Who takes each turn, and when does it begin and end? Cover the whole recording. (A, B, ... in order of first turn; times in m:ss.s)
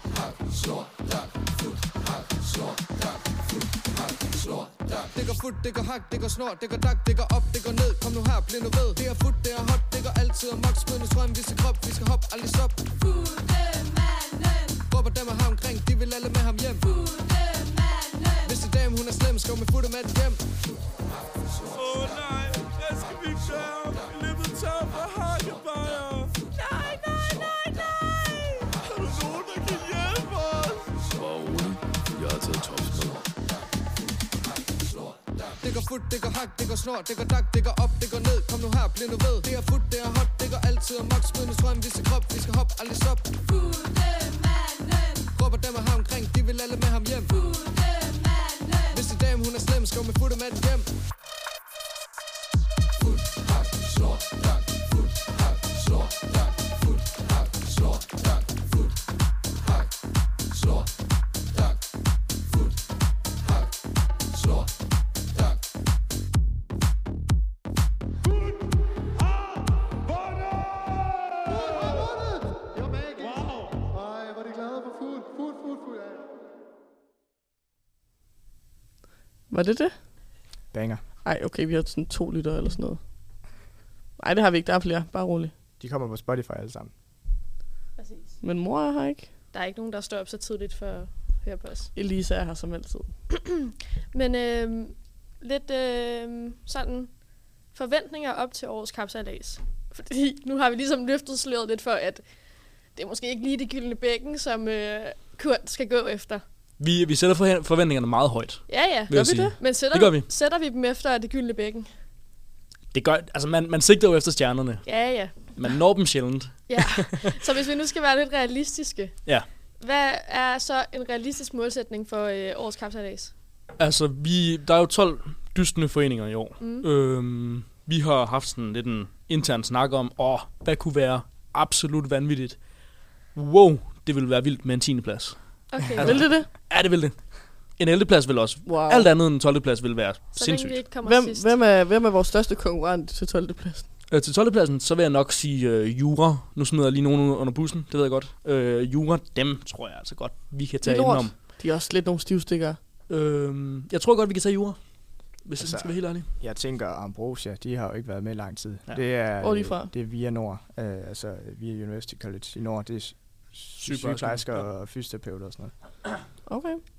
0:05.1-0:12.8 A
0:14.9-0:16.9 A
0:18.4-0:20.4 A
0:21.7-0:30.9 B
0:31.0-0:33.3 C
0:35.6-0:43.3 A
0:45.3-0:47.5 A
0:48.9-0:50.9 A
1:19.5-1:19.9 D
1:20.7-1:21.0 E
1:21.2-1:23.0 D
1:24.2-1:25.5 D
1:25.8-1:26.9 E
1:28.0-1:28.3 F
1:28.4-1:29.3 D
1:29.5-1:31.9 F
1:31.9-1:33.1 D
1:34.1-1:37.2 F
1:37.7-1:46.4 F
1:46.8-1:50.3 G
1:48.7-1:51.9 F
1:49.1-1:49.5 D
1:52.9-1:57.3 G
1:54.8-1:55.8 F
1:56.7-2:03.3 F
2:03.8-2:20.8 G
2:06.6-2:06.8 F
2:15.7-2:16.2 F
2:16.0-2:16.5 D
2:18.6-2:19.1 D
2:20.3-2:21.5 F
2:21.0-2:23.9 D
2:24.1-2:31.4 G
2:30.8-2:32.8 D
2:33.1-2:36.3 G
2:35.6-2:45.7 E
2:39.4-2:39.9 D
2:43.8-2:44.7 G
2:46.5-2:46.8 D